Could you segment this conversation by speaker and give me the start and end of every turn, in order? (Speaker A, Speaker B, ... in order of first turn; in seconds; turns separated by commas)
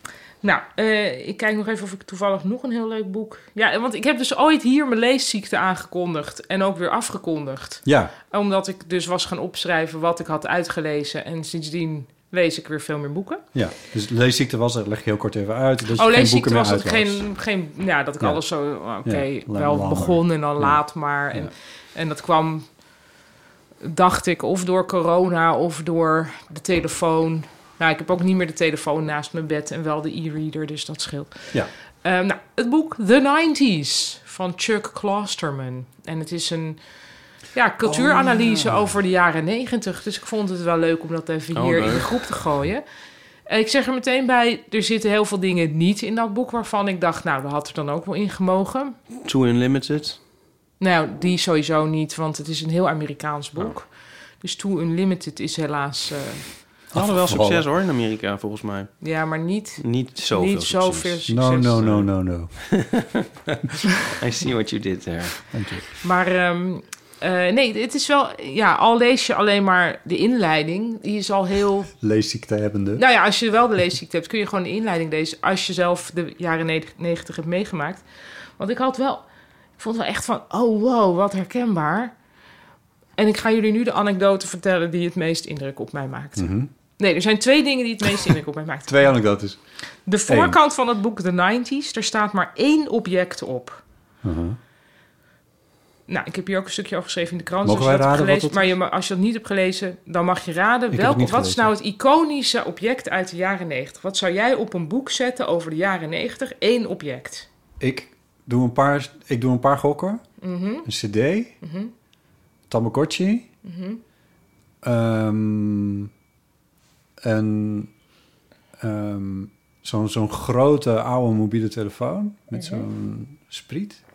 Speaker A: 0.4-13.4, Speaker B: 7.8-8.1, Speaker B: 13.5-17.3, Speaker A: 15.9-22.8, Speaker B: 18.2-21.5, Speaker A: 23.8-36.8, Speaker A: 37.5-42.8, Speaker B: 37.8-38.9, Speaker C: 41.5-42.2, Speaker A: 43.5-49.0, Speaker C: 49.2-50.2, Speaker A: 50.8-56.5, Speaker B: 56.9-57.6, Speaker C: 56.9-59.1, Speaker A: 59.0-61.8, Speaker C: 59.8-61.1, Speaker B: 61.3-63.0, Speaker C: 61.8-62.0, Speaker C: 62.6-63.0, Speaker C: 64.0-65.5, Speaker B: 65.5-66.0, Speaker A: 66.0-71.9, Speaker B: 72.0-73.0, Speaker A: 73.0-78.0, Speaker A: 78.6-79.2, Speaker A: 79.8-82.1, Speaker A: 83.2-89.2, Speaker B: 86.4-86.7, Speaker B: 88.9-89.6, Speaker A: 90.0-93.8, Speaker B: 90.2-90.6, Speaker B: 94.2-94.6, Speaker A: 96.1-107.5, Speaker B: 97.6-98.7, Speaker B: 100.9-101.7, Speaker B: 107.8-110.2, Speaker A: 110.4-110.9, Speaker B: 110.8-111.5, Speaker A: 111.6-111.9, Speaker B: 112.7-113.5, Speaker A: 113.6-114.0, Speaker B: 114.8-116.1, Speaker B: 117.2-117.9, Speaker B: 118.8-124.0, Speaker A: 122.5-122.8